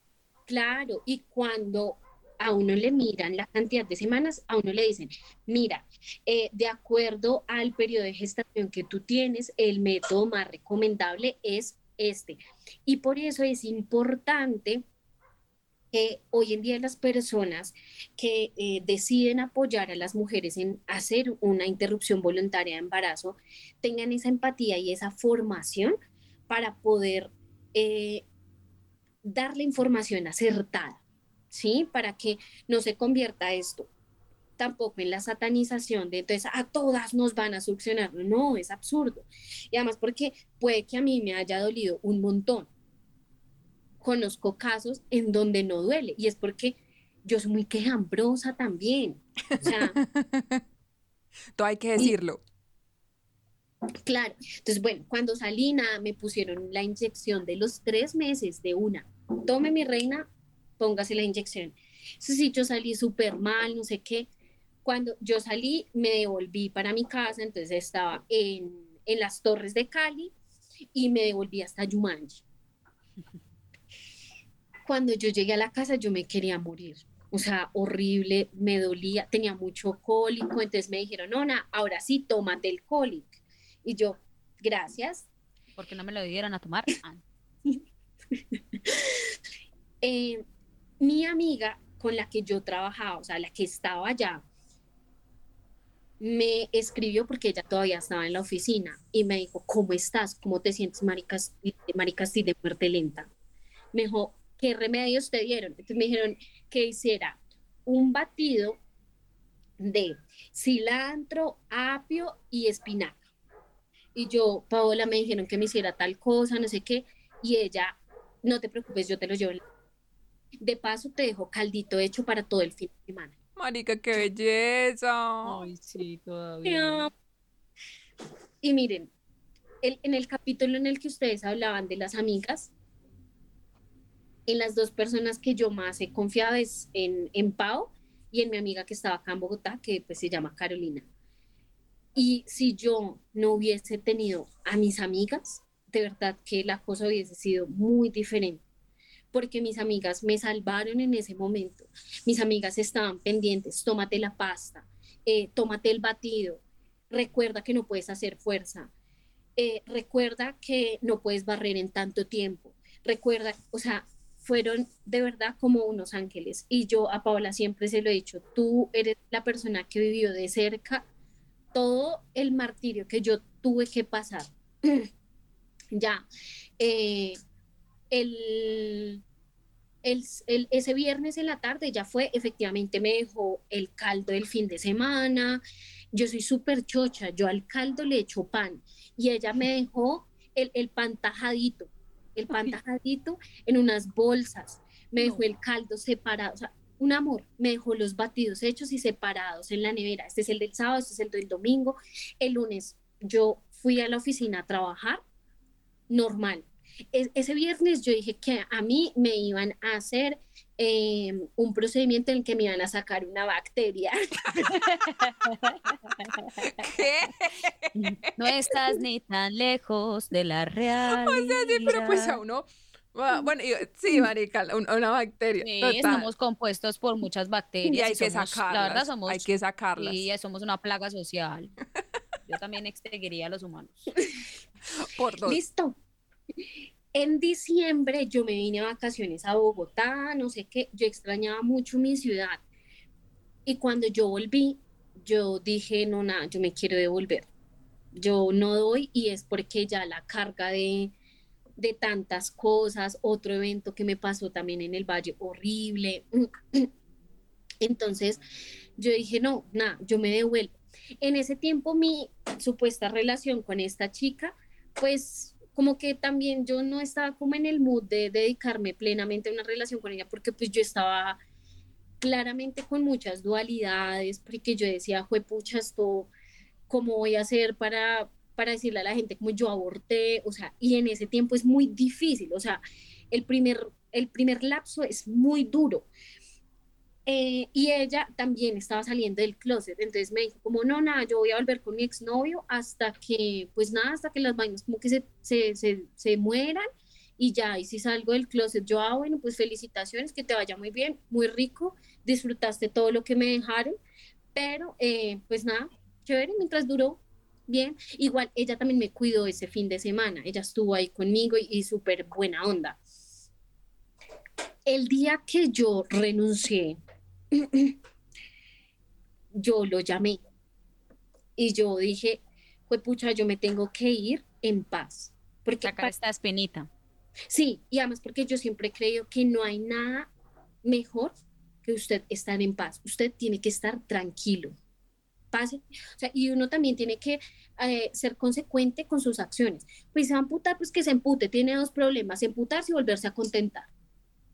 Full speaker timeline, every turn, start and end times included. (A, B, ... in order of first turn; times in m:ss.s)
0:00.5-0:14.8 A
0:15.9-0:26.0 A
0:26.5-0:28.3 A
0:29.2-0:31.0 A
0:31.5-0:33.9 A
0:34.6-0:42.7 A
0:44.0-0:50.0 A
0:49.6-0:50.6 B
0:51.6-0:52.4 B
0:54.0-1:00.3 A
1:00.8-1:04.3 A
1:04.8-1:10.3 A
1:10.9-1:12.4 A
1:14.9-1:25.3 A
1:25.8-1:27.2 C
1:28.4-1:29.2 A
1:30.0-1:30.4 A
1:31.0-1:34.4 A
1:36.2-1:43.3 A
1:43.9-1:48.8 A
1:49.8-1:53.2 A
1:54.1-1:59.6 A
2:00.6-2:03.3 A
2:03.6-2:05.6 B
2:05.4-2:07.1 C
2:06.6-2:07.1 A
2:08.6-2:09.1 A
2:09.8-2:12.7 A
2:14.5-2:21.1 A
2:22.1-2:28.6 A
2:29.3-2:38.9 A
2:39.6-2:51.0 A
2:51.7-2:55.1 A
2:55.9-2:56.2 A
2:56.8-2:57.4 A
2:58.1-2:59.2 A
3:00.0-3:05.6 A
3:06.1-3:25.2 A
3:12.5-3:12.8 C
3:26.1-3:34.2 A
3:34.6-3:36.5 C
3:36.6-3:38.2 B
3:38.0-3:42.4 C
3:41.1-3:46.3 B
3:45.6-3:51.8 C
3:47.9-3:50.3 B
3:52.5-3:54.1 C
3:54.2-3:54.4 A
3:55.0-3:55.6 B
3:55.4-3:56.0 A
3:57.1-4:02.6 A
4:03.7-4:07.5 A
4:08.1-4:11.1 A
4:11.8-4:16.9 A
4:17.8-4:18.4 A
4:19.0-4:31.4 A
4:32.2-4:36.3 A
4:36.9-4:46.1 A
4:47.3-4:56.8 A
4:57.4-5:04.0 A
5:04.6-5:13.0 A
5:14.9-5:17.0 A
5:17.5-5:18.0 A
5:19.5-5:20.4 A
5:21.6-5:26.1 A
5:25.8-5:26.9 C
5:27.5-5:30.3 A
5:30.8-5:31.3 A
5:31.8-5:34.7 A
5:35.5-5:43.9 A